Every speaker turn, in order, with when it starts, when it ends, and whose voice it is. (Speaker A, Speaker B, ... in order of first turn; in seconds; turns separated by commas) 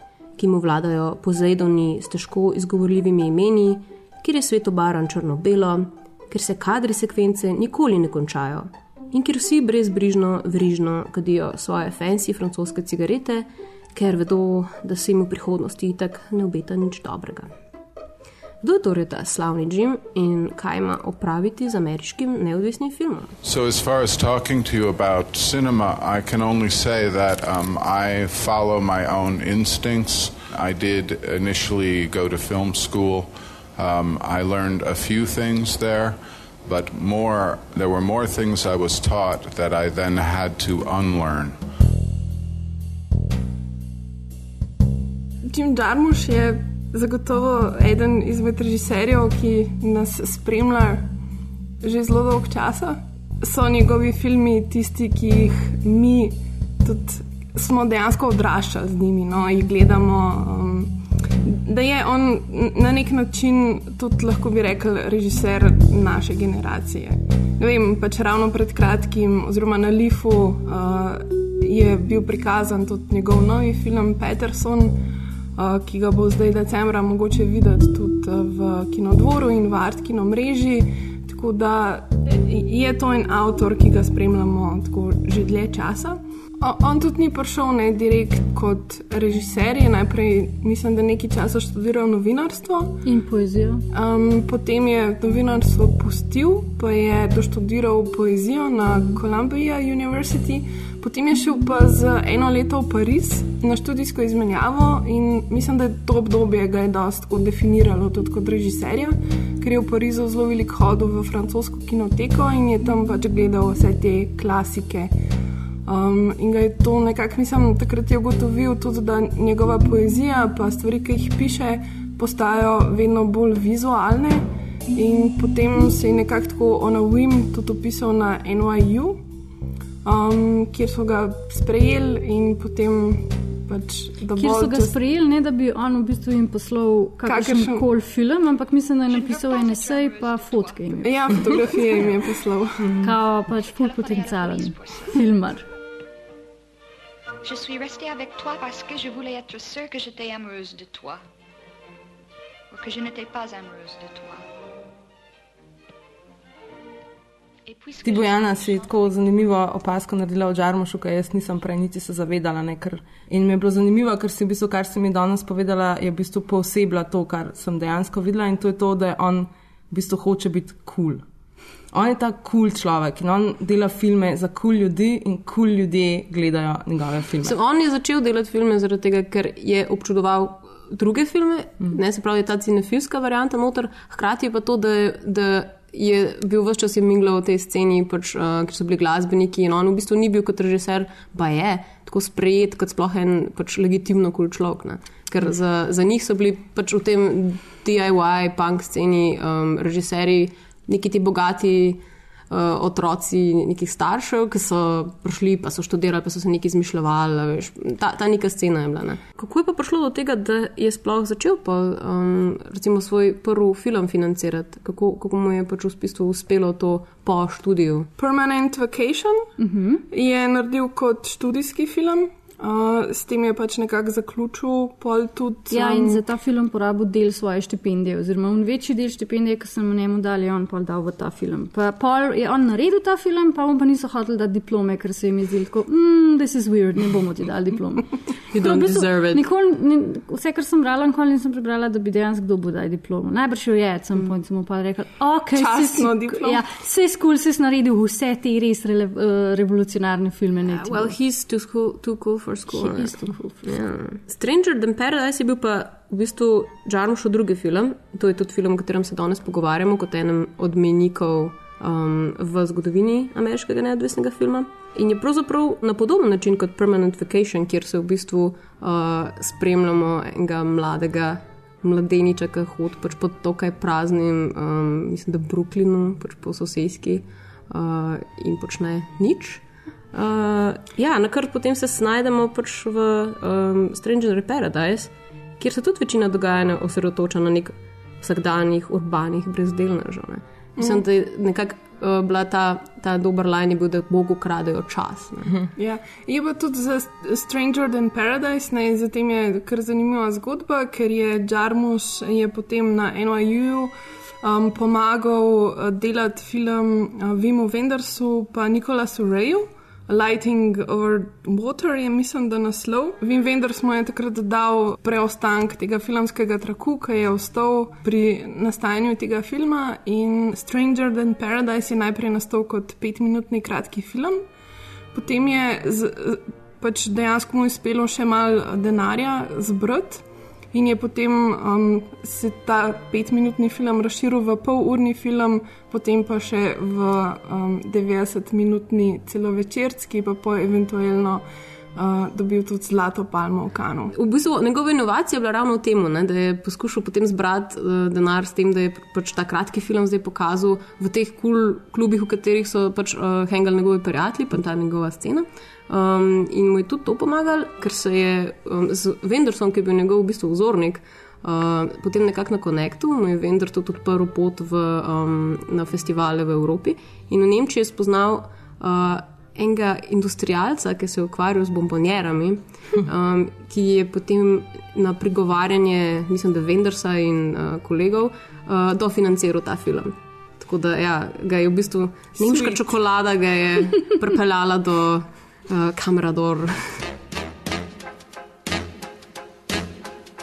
Speaker A: 0.4-17.5, Speaker A: 18.6-23.3, Speaker B: 23.4-41.6, Speaker C: 45.5-51.1, Speaker C: 51.8-75.0, Speaker C: 75.6-93.0, Speaker D: 93.0-93.9, Speaker C: 93.9-115.1, Speaker C: 115.9-129.2, Speaker C: 130.0-135.0, Speaker D: 134.4-141.6, Speaker C: 137.2-137.9, Speaker E: 139.1-141.6, Speaker C: 141.0-143.1, Speaker D: 143.0-145.7, Speaker E: 143.4-145.2, Speaker E: 147.4-151.2, Speaker E: 152.7-154.5, Speaker E: 157.7-159.1, Speaker F: 158.0-171.2, Speaker F: 171.9-177.6, Speaker A: 177.4-218.1, Speaker C: 218.2-219.5, Speaker D: 219.6-220.1, Speaker C: 220.1-226.2, Speaker D: 225.7-251.1, Speaker A: 238.5-239.4, Speaker C: 245.6-246.6, Speaker A: 250.7-295.5, Speaker D: 252.7-253.5, Speaker C: 290.8-291.0, Speaker C: 295.8-324.4, Speaker C: 325.1-344.1, Speaker A: 344.1-387.1, Speaker C: 382.4-382.8